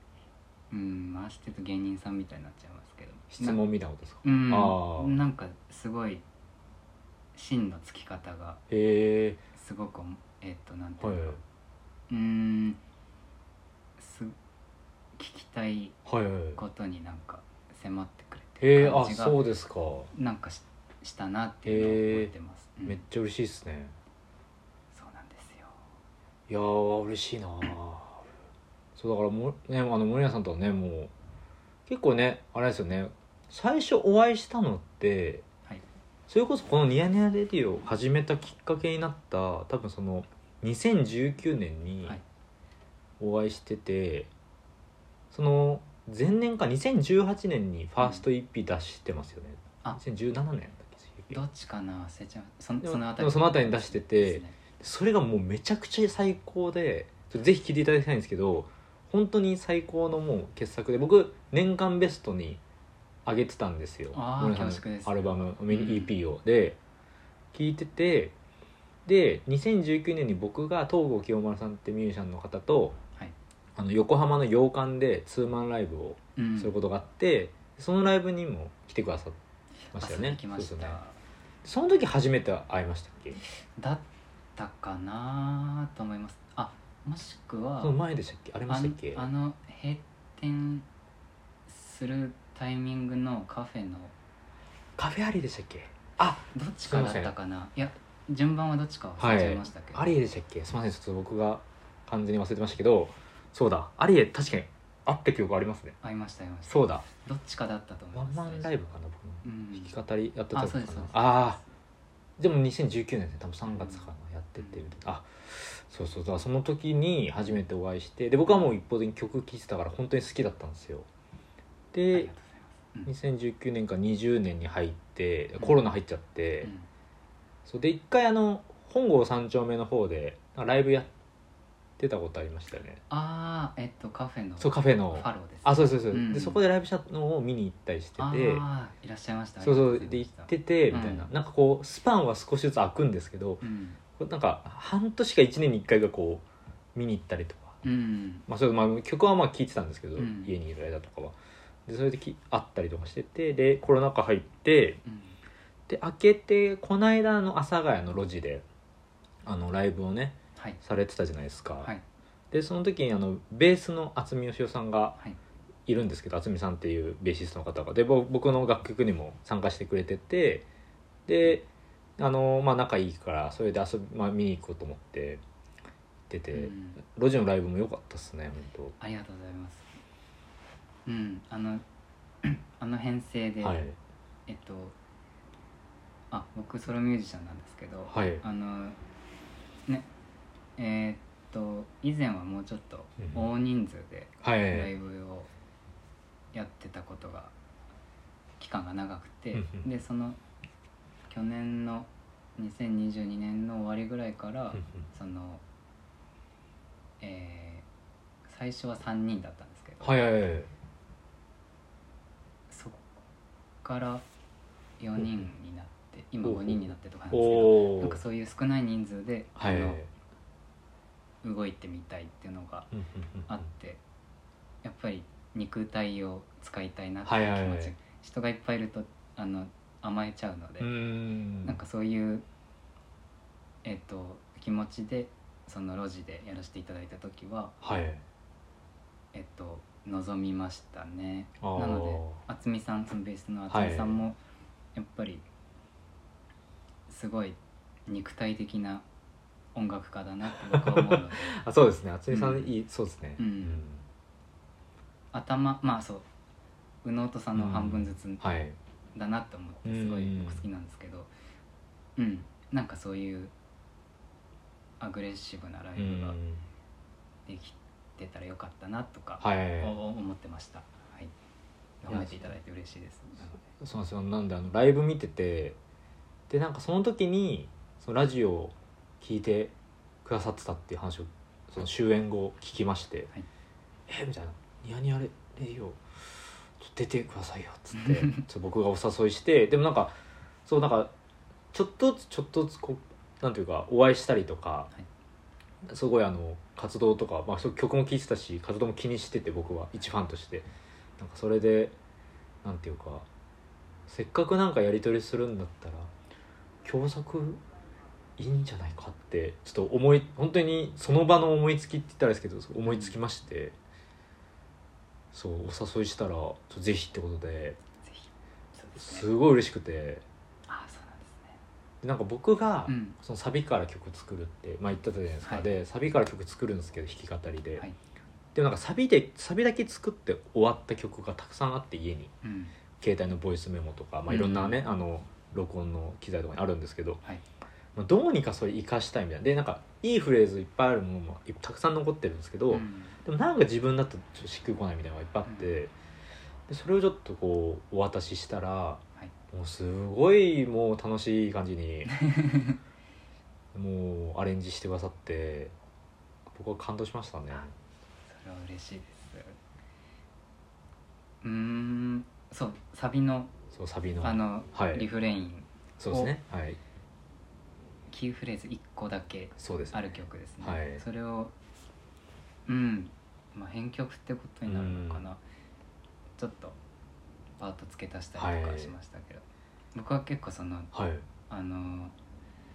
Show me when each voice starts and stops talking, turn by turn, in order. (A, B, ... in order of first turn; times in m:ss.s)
0:00.7-0:03.6 A
0:03.3-0:05.2 B
0:04.2-0:06.2 A
0:07.3-0:08.6 A
0:08.7-0:09.4 B
0:09.5-0:11.4 A
0:11.0-0:11.4 B
0:12.1-0:12.8 A
0:14.0-0:14.3 A
0:15.2-0:16.0 A
0:16.0-0:16.6 B
0:16.6-0:19.4 A
0:18.6-0:20.1 B
0:20.1-0:23.0 A
0:21.6-0:22.3 B
0:22.8-0:23.9 B
0:24.9-0:25.8 A
0:26.5-0:28.2 B
0:29.0-0:31.1 B
0:31.9-0:35.4 B
0:36.3-0:42.2 B
0:43.2-0:44.3 B
0:45.3-0:51.4 B
0:51.3-0:54.6 A
0:52.8-1:02.6 B
1:03.2-1:06.8 B
1:04.1-1:06.1 A
1:07.5-1:08.3 B
1:09.0-1:13.0 B
1:13.8-1:19.4 B
1:16.4-1:16.7 A
1:19.9-1:21.0 B
1:19.9-1:21.2 A
1:21.6-1:23.4 B
1:23.6-1:24.0 A
1:24.5-1:28.0 A
1:27.8-1:29.3 B
1:28.7-1:30.8 A
1:31.7-1:34.1 A
1:35.0-1:37.3 B
1:36.5-1:40.1 A
1:39.2-1:46.0 B
1:46.0-1:48.9 A
1:46.6-1:47.0 B
1:48.1-1:51.6 B
1:49.4-1:49.9 A
1:50.5-1:51.6 A
1:52.4-2:01.1 B
1:53.6-1:54.1 A
1:54.6-1:54.8 A
2:01.9-2:02.3 B
2:02.1-2:03.1 A
2:03.0-2:06.7 B
2:06.6-2:06.9 A
2:07.6-2:11.1 B
2:12.0-2:13.0 B
2:13.1-2:16.6 A
2:14.6-2:18.6 B
2:18.2-2:21.3 A
2:19.6-2:23.6 B
2:23.6-2:24.0 A
2:24.2-2:27.8 B
2:27.8-2:28.4 A
2:28.5-2:31.3 B
2:30.2-2:30.5 A
2:31.9-2:35.0 B
2:35.0-2:35.3 A
2:35.9-2:38.6 B
2:39.4-2:41.9 B
2:42.5-2:45.2 B
2:45.9-2:50.7 B
2:51.3-2:51.6 B
2:52.2-2:55.4 B
2:56.3-2:59.0 B
2:56.5-2:57.0 A
2:59.0-2:59.9 A
3:01.0-3:01.8 A
3:02.4-3:03.8 A
3:03.6-3:04.0 B
3:04.5-3:05.0 A
3:06.3-3:09.0 A
3:08.1-3:08.4 B
3:10.8-3:15.5 A
3:13.2-3:13.5 B
3:14.4-3:14.9 B
3:16.5-3:17.5 A
3:18.6-3:20.4 A
3:19.5-3:19.9 B
3:21.3-3:25.6 A
3:24.7-3:25.1 B
3:27.2-3:27.8 A
3:28.4-3:30.1 A
3:30.0-3:30.7 B
3:32.7-3:33.0 A
3:33.8-3:34.2 A
3:35.0-3:40.0 A
3:36.4-3:38.2 B
3:39.6-3:40.1 B
3:41.4-3:42.9 A
3:42.9-3:43.6 B
3:43.5-3:44.0 A
3:44.8-3:50.9 A
3:47.2-3:48.0 B
3:50.8-3:51.8 B
3:51.6-3:52.4 A
3:53.8-3:57.7 A
3:57.8-3:58.2 B
3:59.3-4:04.4 A
4:01.6-4:02.4 B
4:03.7-4:04.2 B
4:04.9-4:05.4 A
4:07.1-4:09.0 A
4:09.7-4:11.6 A
4:10.5-4:14.0 B
4:12.3-4:12.7 A
4:13.4-4:13.8 A
4:15.3-4:16.2 A
4:17.0-4:18.4 A
4:17.5-4:18.8 B
4:19.1-4:21.3 A
4:19.8-4:20.6 B
4:22.2-4:23.5 A
4:25.0-4:26.4 A
4:26.0-4:26.6 B
4:27.4-4:31.3 A
4:29.4-4:30.0 B
4:32.0-4:33.6 A
4:32.1-4:32.4 B
4:33.6-4:35.8 B
4:36.5-4:39.7 B
4:40.2-4:43.3 B
4:44.1-4:46.0 B
4:46.8-4:50.1 B
4:48.0-4:48.4 A
4:50.6-4:51.1 B
4:51.7-4:54.9 B
4:55.9-5:00.7 B
5:01.2-5:01.9 B
5:02.6-5:03.3 B
5:04.1-5:06.1 B
5:06.8-5:07.6 B
5:08.4-5:13.7 B
5:12.8-5:13.2 A
5:15.3-5:17.8 B
5:18.0-5:19.3 A
5:19.0-5:20.2 B
5:20.7-5:21.6 A
5:22.0-5:27.8 B
5:22.9-5:23.2 A
5:25.4-5:25.7 A
5:28.5-5:32.3 B
5:32.4-5:32.7 A
5:33.0-5:37.2 B
5:34.3-5:34.8 A
5:38.0-5:45.9 B
5:42.7-5:43.2 A
5:45.4-5:45.7 A
5:46.7-5:52.2 B
5:52.1-5:52.8 A
5:53.7-5:55.7 B
5:56.5-5:57.7 B
5:58.3-5:59.6 A
6:01.4-6:03.5 A
6:03.7-6:05.1 B
6:04.2-6:06.3 A
6:06.0-6:06.8 B
6:08.1-6:11.5 A
6:09.6-6:11.0 B
6:12.6-6:15.4 A
6:14.6-6:15.2 B
6:16.4-6:16.8 A
6:17.6-6:20.9 A
6:18.3-6:18.9 B
6:20.9-6:21.2 B
6:21.5-6:22.1 A